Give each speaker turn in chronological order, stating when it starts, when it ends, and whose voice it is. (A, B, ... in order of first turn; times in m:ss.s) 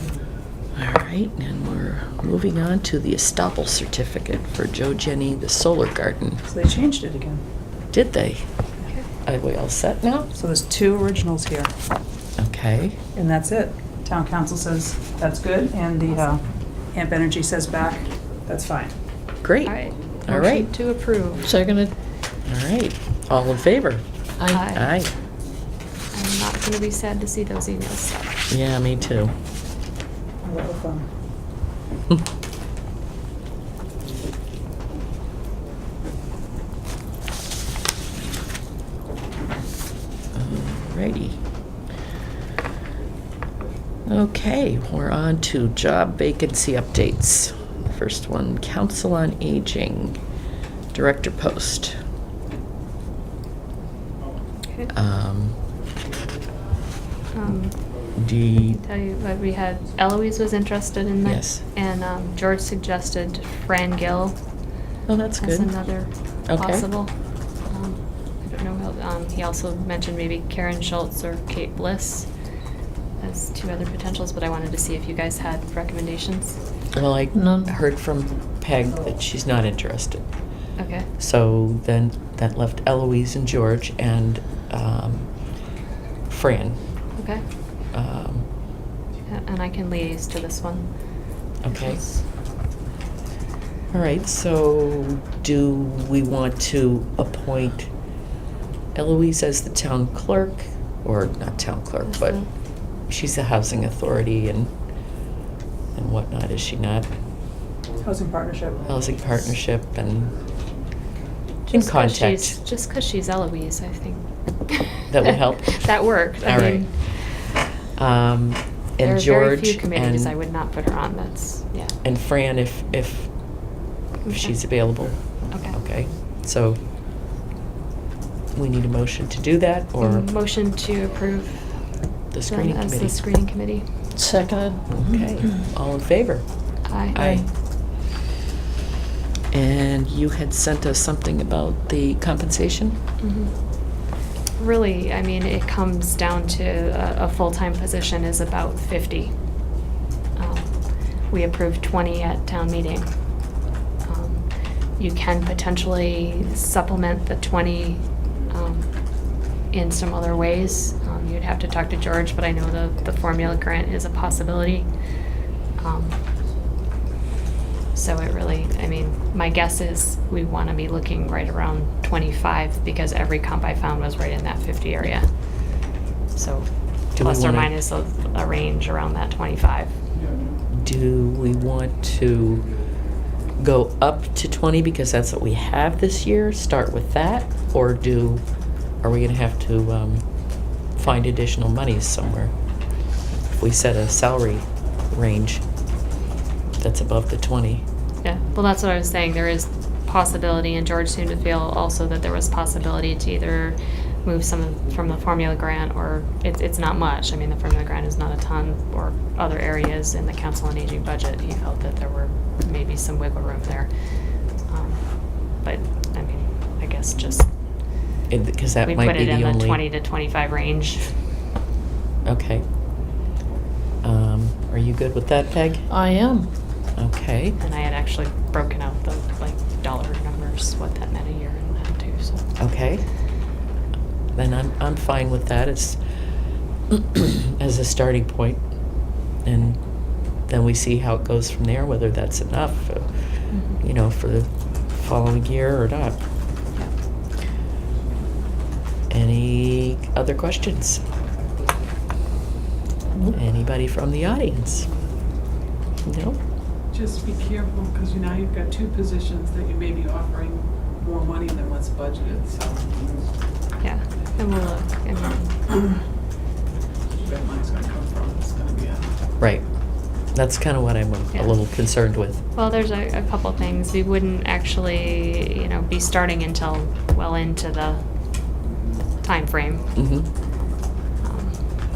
0:00.8-0:06.4 A
0:06.4-0:07.4 B
0:07.9-0:08.4 A
0:09.2-0:10.3 A
0:10.3-0:11.7 B
0:12.4-0:13.0 A
0:13.1-0:16.4 B
0:16.9-0:18.9 B
0:19.4-0:20.7 A
0:19.6-0:21.5 C
0:21.4-0:21.9 D
0:22.4-0:24.0 A
0:24.5-0:24.9 C
0:24.7-0:25.1 A
0:26.1-0:28.4 C
0:28.5-0:29.3 A
0:30.4-0:31.1 B
0:40.3-0:41.4 A
0:44.0-0:50.2 A
0:50.9-0:52.0 A
0:54.6-0:54.9 C
0:54.9-0:55.6 A
0:57.3-0:57.8 C
0:58.2-0:58.8 A
0:58.5-1:04.4 C
1:01.2-1:01.6 A
1:05.1-1:05.7 A
1:05.4-1:07.1 C
1:06.5-1:06.8 A
1:07.7-1:12.3 C
1:13.2-1:16.6 C
1:16.9-1:20.2 A
1:17.3-1:17.7 D
1:20.8-1:21.1 C
1:21.2-1:25.3 A
1:26.3-1:26.8 A
1:27.2-1:27.4 C
1:27.9-1:28.5 A
1:29.3-1:31.1 C
1:31.6-1:32.0 A
1:31.7-1:32.2 C
1:33.9-1:37.9 A
1:38.9-1:42.4 A
1:42.0-1:42.4 C
1:43.1-1:44.7 A
1:45.9-1:47.1 A
1:48.0-1:48.9 B
1:48.9-1:50.4 A
1:51.7-1:56.9 C
1:51.7-1:52.6 A
1:55.1-1:57.0 A
1:58.0-2:00.3 A
1:59.0-2:01.9 C
2:02.0-2:03.3 A
2:04.2-2:04.6 C
2:04.3-2:06.8 A
2:05.5-2:05.8 C
2:08.5-2:10.2 A
2:10.0-2:11.8 C
2:12.3-2:13.2 A
2:12.4-2:13.8 C
2:14.2-2:14.8 D
2:14.9-2:16.4 A
2:16.8-2:17.2 C
2:17.1-2:17.4 A
2:17.1-2:17.4 D
2:19.5-2:23.0 A
2:23.2-2:23.5 C
2:24.6-2:29.3 C
2:30.4-2:33.1 C
2:34.0-2:34.4 C
2:35.0-2:38.9 C
2:39.7-2:44.9 C
2:45.8-2:46.2 C
2:47.9-2:55.3 C
2:56.3-3:00.0 C
2:57.2-2:57.7 A
3:00.7-3:02.7 A
3:03.6-3:08.4 A
3:09.0-3:10.2 A
3:10.9-3:12.5 A
3:13.6-3:15.6 A
3:16.8-3:17.8 A
3:18.2-3:33.9 C
3:34.5-3:37.5 C
3:38.3-3:39.8 A
3:38.8-3:41.1 C
3:42.2-3:42.6 A
3:44.0-3:45.9 A
3:45.9-3:46.5 D
3:47.0-3:47.6 A
3:47.6-3:52.4 C
3:52.6-3:53.0 A
3:54.3-3:56.0 A
3:56.9-3:58.6 A
3:59.4-4:06.2 A
4:03.5-4:03.8 C
4:09.1-4:11.0 A
4:13.3-4:14.9 A
4:16.0-4:16.4 A
4:16.9-4:22.7 E
4:23.8-4:25.6 C
4:27.2-4:29.1 E
4:29.4-4:29.6 A
4:30.3-4:32.4 A
4:32.5-4:38.0 C
4:39.2-4:39.9 C
4:40.0-4:40.3 A
4:41.2-4:41.6 C